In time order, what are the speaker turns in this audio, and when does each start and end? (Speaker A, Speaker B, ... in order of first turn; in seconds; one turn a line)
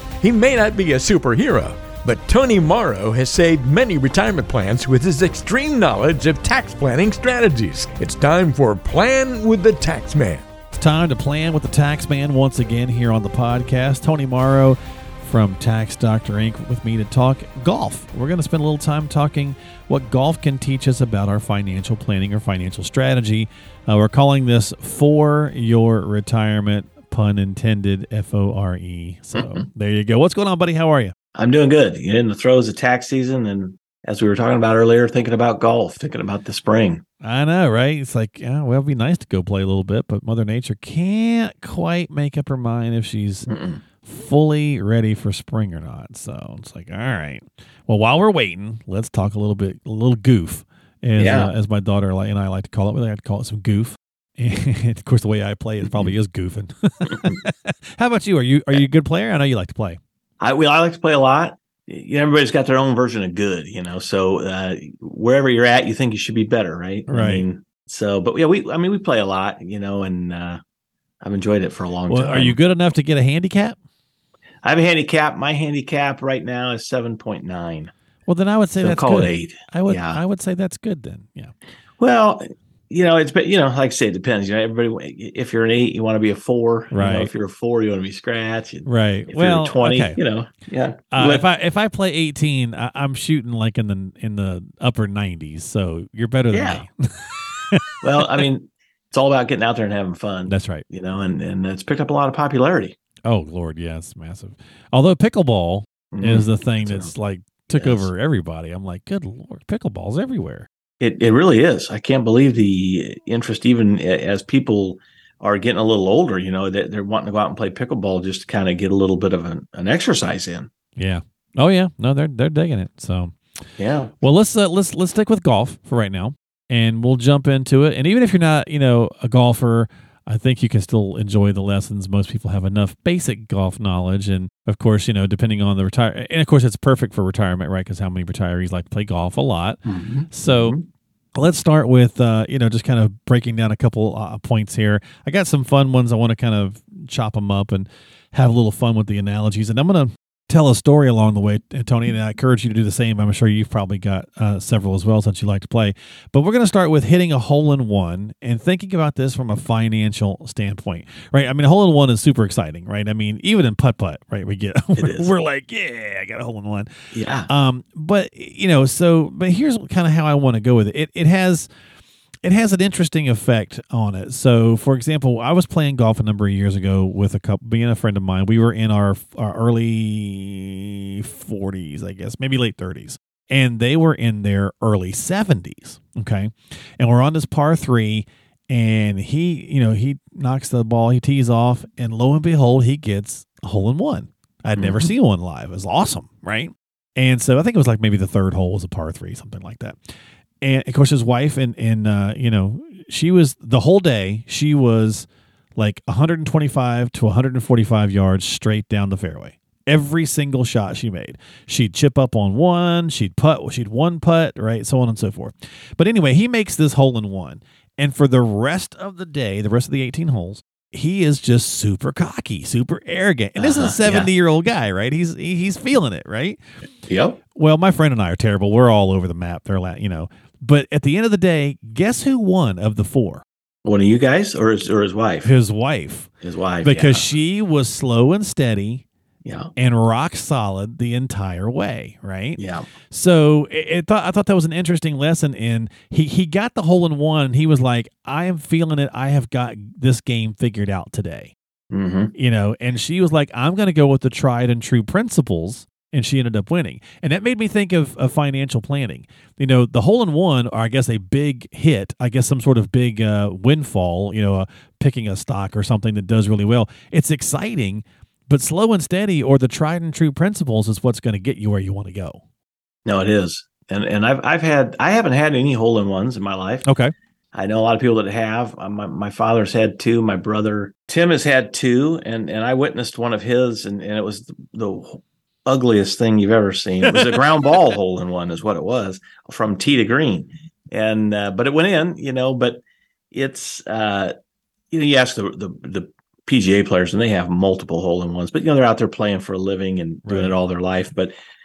Speaker A: 0.2-10.4
Speaker B: 10.7-31.1
Speaker C: 29.3-29.6
Speaker C: 31.3-37.0
Speaker B: 37.2-43.5
Speaker C: 43.5-43.8
Speaker B: 44.0-60.0
Speaker C: 51.1-51.5
Speaker C: 57.1-57.4
Speaker C: 60.4-70.6
Speaker B: 67.1-67.4
Speaker C: 71.2-72.6
Speaker B: 72.1-73.8
Speaker C: 74.6-77.9
Speaker B: 78.3-81.5
Speaker C: 78.8-80.2
Speaker C: 82.0-91.5
Speaker B: 86.9-87.3
Speaker B: 88.8-90.2
Speaker B: 91.1-98.4
Speaker C: 96.5-96.8
Speaker C: 98.0-103.0
Speaker B: 100.5-100.8
Speaker B: 103.2-110.7
Speaker C: 106.1-107.1
Speaker C: 107.7-108.1
Speaker C: 111.0-120.7
Speaker B: 121.0-123.3
Speaker C: 123.8-124.1
Speaker B: 124.2-140.8
Speaker C: 139.8-140.8
Speaker B: 141.3-166.9
Speaker C: 165.0-165.3
Speaker C: 167.1-167.5
Speaker B: 167.5-171.7
Speaker B: 172.4-200.0
Speaker C: 194.8-195.1
Speaker B: 200.6-226.6
Speaker C: 223.6-224.3
Speaker C: 227.1-227.4
Speaker B: 227.6-233.4
Speaker C: 233.8-235.5
Speaker B: 235.4-236.3
Speaker C: 236.4-237.3
Speaker B: 236.8-239.0
Speaker C: 239.4-239.7
Speaker B: 239.8-251.5
Speaker C: 242.6-242.8
Speaker C: 251.9-252.3
Speaker B: 252.3-272.4
Speaker C: 273.0-276.9
Speaker B: 276.8-277.1
Speaker C: 277.5-294.3
Speaker B: 287.0-287.4
Speaker C: 294.9-301.3
Speaker B: 300.2-300.5